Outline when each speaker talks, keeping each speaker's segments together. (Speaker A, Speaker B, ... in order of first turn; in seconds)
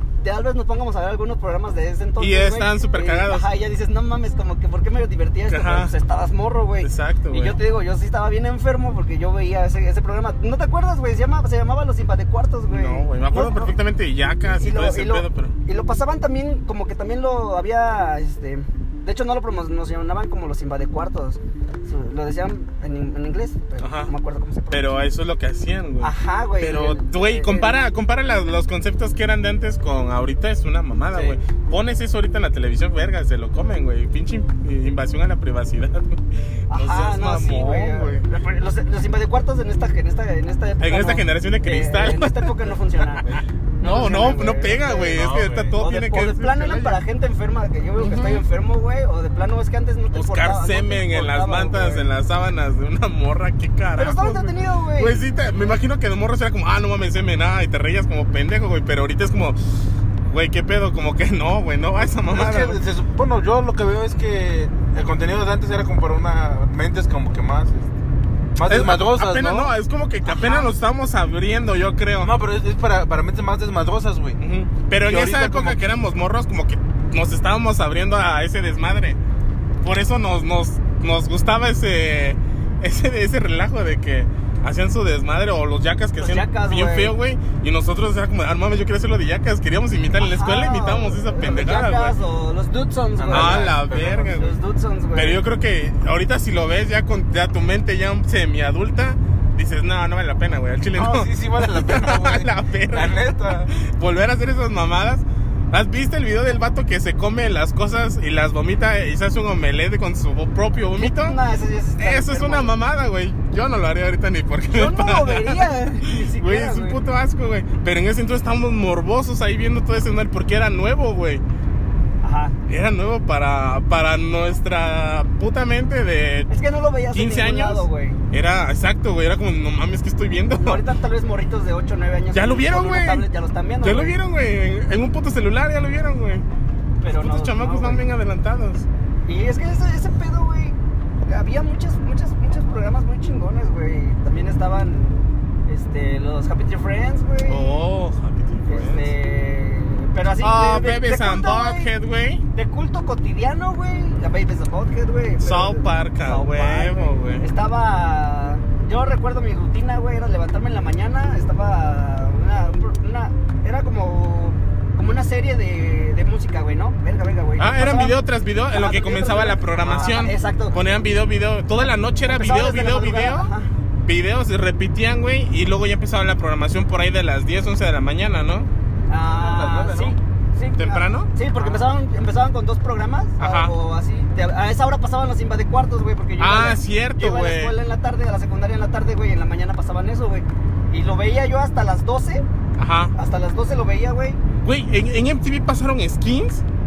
Speaker A: 0.2-13.7, 14.5-25.0, 26.0-27.8, 36.7-52.1, 54.0-55.2, 70.2-70.7, 86.2-87.1, 90.1-95.4, 111.0-112.7, 114.7-117.0, 122.2-122.5, 126.5-128.2, 130.6-134.2, 137.0-138.1, 139.2-147.8, 148.7-151.9, 152.5-168.2, 168.7-170.8, 172.2-173.7, 179.1-192.4, 193.1-194.4
Speaker B: 2.2-3.5, 5.5-5.9, 6.8-7.6, 12.7-15.6, 23.8-24.1, 24.7-38.3, 40.8-47.0, 48.0-48.4, 50.1-62.8, 68.7-72.3, 74.4-79.2, 79.8-92.2, 93.3-94.6, 95.1-111.4, 112.0-121.4, 122.7-126.5, 127.1-130.8, 132.3-133.3, 133.8-136.4, 137.1-138.9, 147.5-149.1, 150.4-152.4, 155.4-157.5, 167.6-173.5, 174.0-178.7, 180.8-181.3, 183.4-183.7, 186.4-187.7, 192.8-193.1, 194.6-196.6
Speaker C: 31.1-31.4, 45.1-45.8, 62.3-68.0, 68.5-69.7, 72.2-74.4, 74.9-75.8, 93.2-94.3, 100.9-103.7, 179.2-180.2, 181.6-181.9